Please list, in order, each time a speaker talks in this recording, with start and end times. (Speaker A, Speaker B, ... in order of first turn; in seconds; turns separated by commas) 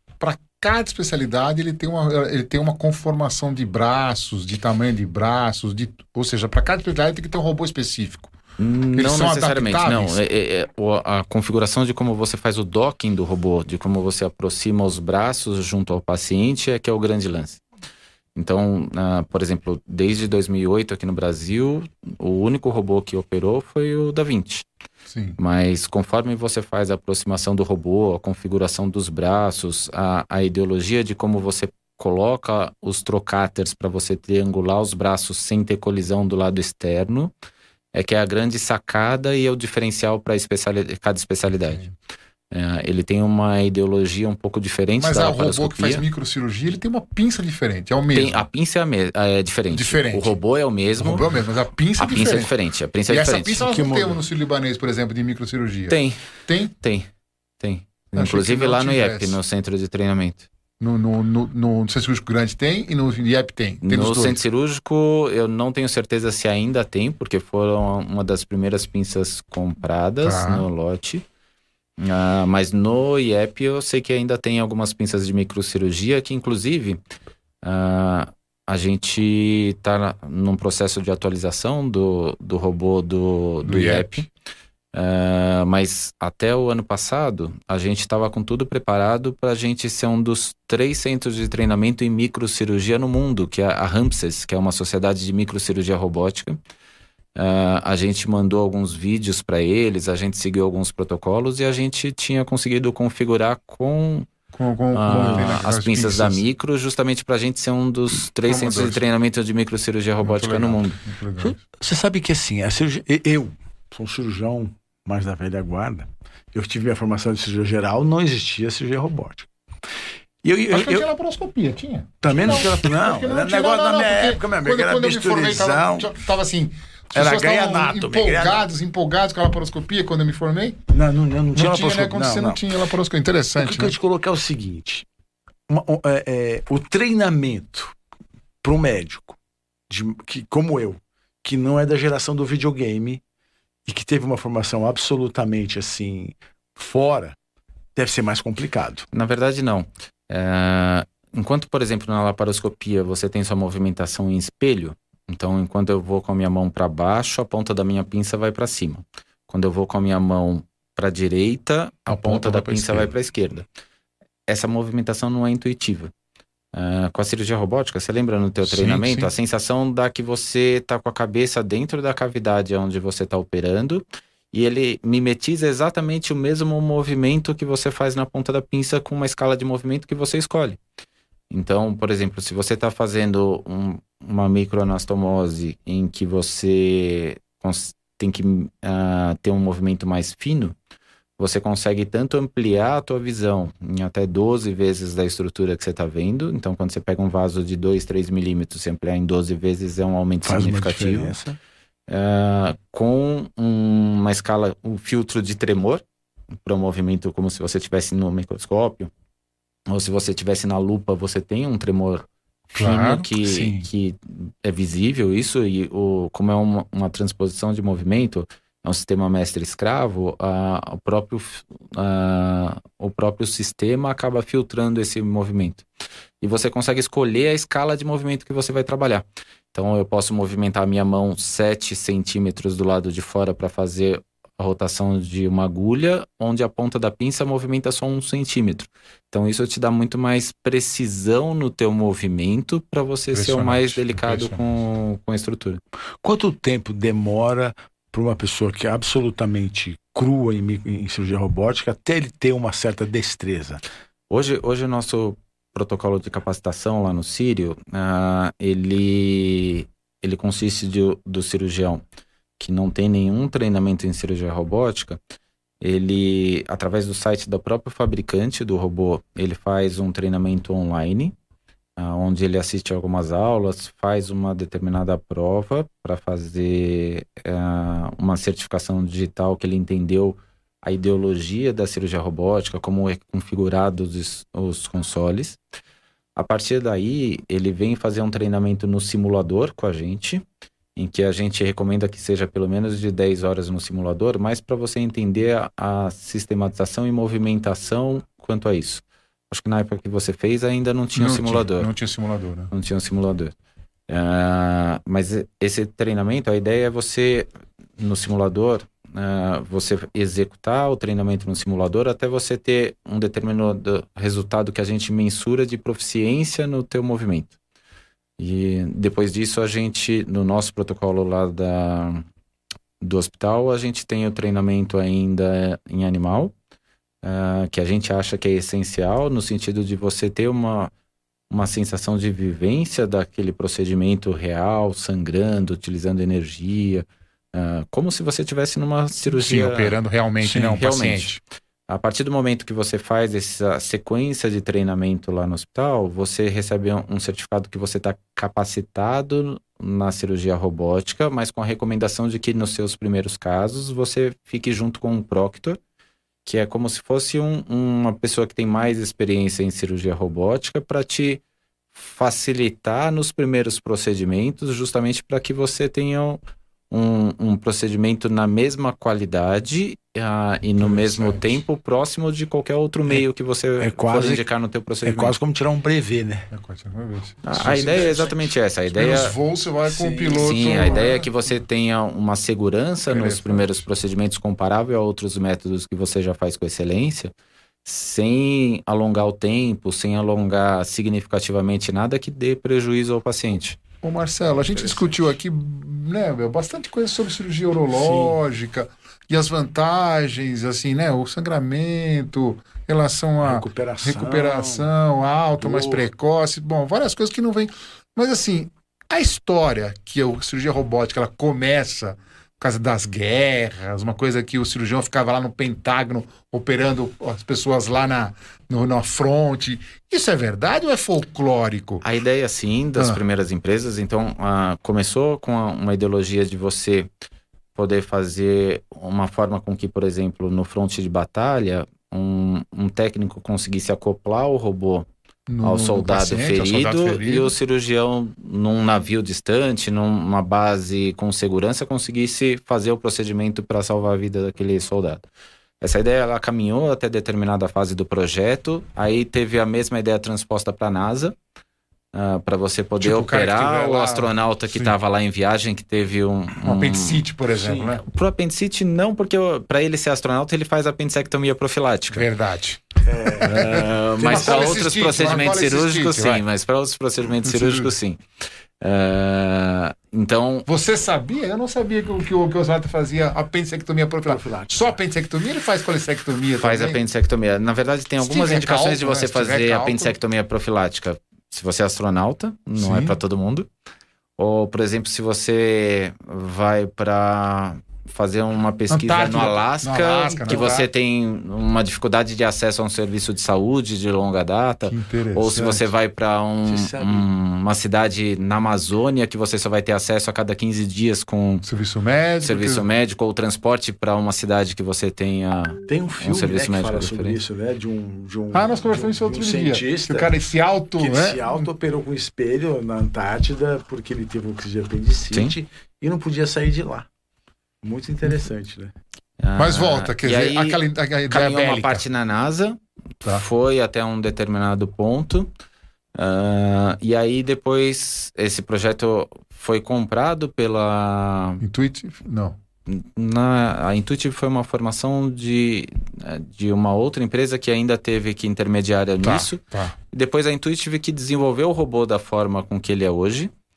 Speaker A: 0.2-8.3, Speaker B: 8.6-17.6, Speaker A: 8.9-10.2, Speaker B: 18.3-24.6, Speaker A: 25.1-25.4, Speaker B: 25.4-37.3, Speaker B: 37.9-41.9, Speaker B: 42.5-46.0, Speaker A: 45.0-48.4, Speaker B: 48.1-51.2, Speaker A: 49.7-50.3, Speaker A: 51.0-52.5, Speaker B: 52.0-53.6, Speaker A: 53.1-56.7, Speaker C: 53.6-54.2, Speaker B: 55.9-57.1, Speaker B: 57.6-60.5, Speaker A: 58.1-59.4, Speaker A: 60.8-64.4, Speaker B: 63.8-71.2, Speaker A: 70.2-70.7, Speaker B: 72.0-77.0, Speaker B: 77.6-84.3, Speaker A: 83.6-84.2, Speaker B: 84.9-96.6, Speaker B: 97.3-104.3, Speaker A: 104.5-106.4, Speaker B: 104.9-111.0, Speaker C: 105.1-105.6, Speaker A: 108.4-109.0, Speaker A: 110.2-111.6, Speaker C: 111.4-119.5, Speaker C: 120.4-121.1, Speaker A: 120.7-130.8, Speaker C: 122.2-126.1, Speaker C: 127.1-128.6, Speaker C: 130.9-132.6, Speaker A: 131.6-133.9, Speaker C: 133.6-135.0, Speaker C: 135.7-137.9, Speaker C: 138.6-139.4, Speaker C: 139.9-143.2, Speaker C: 143.8-147.3, Speaker C: 147.9-149.1, Speaker B: 149.1-163.7, Speaker A: 162.1-163.1, Speaker B: 164.5-166.1, Speaker B: 166.7-180.8, Speaker A: 168.6-169.3, Speaker B: 181.5-190.8, Speaker B: 191.4-201.3, Speaker C: 200.4-201.6, Speaker B: 202.1-206.0, Speaker B: 206.6-209.1, Speaker B: 209.9-225.8, Speaker A: 212.7-213.9, Speaker B: 226.4-245.8, Speaker A: 243.3-244.6, Speaker C: 246.2-253.8, Speaker B: 254.3-262.0, Speaker B: 262.6-265.2, Speaker B: 265.8-271.3, Speaker B: 272.0-285.6, Speaker B: 286.4-290.4, Speaker B: 290.9-301.9, Speaker A: 301.1-302.7, Speaker B: 302.7-303.5, Speaker B: 304.1-317.5, Speaker B: 318.4-322.2, Speaker B: 323.0-326.5, Speaker B: 327.2-330.9, Speaker B: 331.5-341.3, Speaker A: 339.3-341.4, Speaker B: 341.9-355.8, Speaker B: 356.4-361.4, Speaker B: 361.9-366.4, Speaker B: 366.9-375.3, Speaker A: 370.8-371.6, Speaker C: 373.8-374.4, Speaker C: 375.0-376.5, Speaker A: 376.5-378.3, Speaker B: 377.4-379.3, Speaker C: 377.5-378.5, Speaker A: 378.9-381.6, Speaker C: 379.9-381.2, Speaker B: 380.3-387.3, Speaker A: 383.1-383.8, Speaker B: 387.8-393.8, Speaker A: 394.0-422.0, Speaker C: 394.6-395.2, Speaker C: 397.9-398.4, Speaker C: 403.4-404.9, Speaker C: 405.6-406.0, Speaker B: 422.0-427.1, Speaker A: 422.9-423.2, Speaker B: 427.7-435.1, Speaker A: 435.5-437.5, Speaker B: 435.6-445.2, Speaker B: 445.8-451.4, Speaker B: 452.1-457.2, Speaker A: 453.0-454.9, Speaker A: 456.6-458.0, Speaker C: 457.5-458.0, Speaker B: 458.0-462.2, Speaker A: 462.1-466.4, Speaker C: 463.0-464.9, Speaker B: 463.4-468.2, Speaker A: 467.4-467.9, Speaker B: 468.8-470.7, Speaker A: 470.7-477.0, Speaker C: 474.3-474.9, Speaker B: 476.6-483.7, Speaker A: 478.2-480.1, Speaker A: 482.8-483.2, Speaker B: 484.4-501.6, Speaker A: 488.9-490.9, Speaker A: 494.8-495.9, Speaker C: 496.6-497.3, Speaker A: 501.6-502.8, Speaker B: 502.4-507.4, Speaker C: 505.9-510.3, Speaker A: 508.5-511.7, Speaker C: 511.0-517.1, Speaker C: 517.8-518.9, Speaker B: 519.4-525.5, Speaker A: 519.6-522.0, Speaker B: 526.1-531.6, Speaker A: 531.6-532.6, Speaker B: 532.9-543.5, Speaker A: 539.2-540.0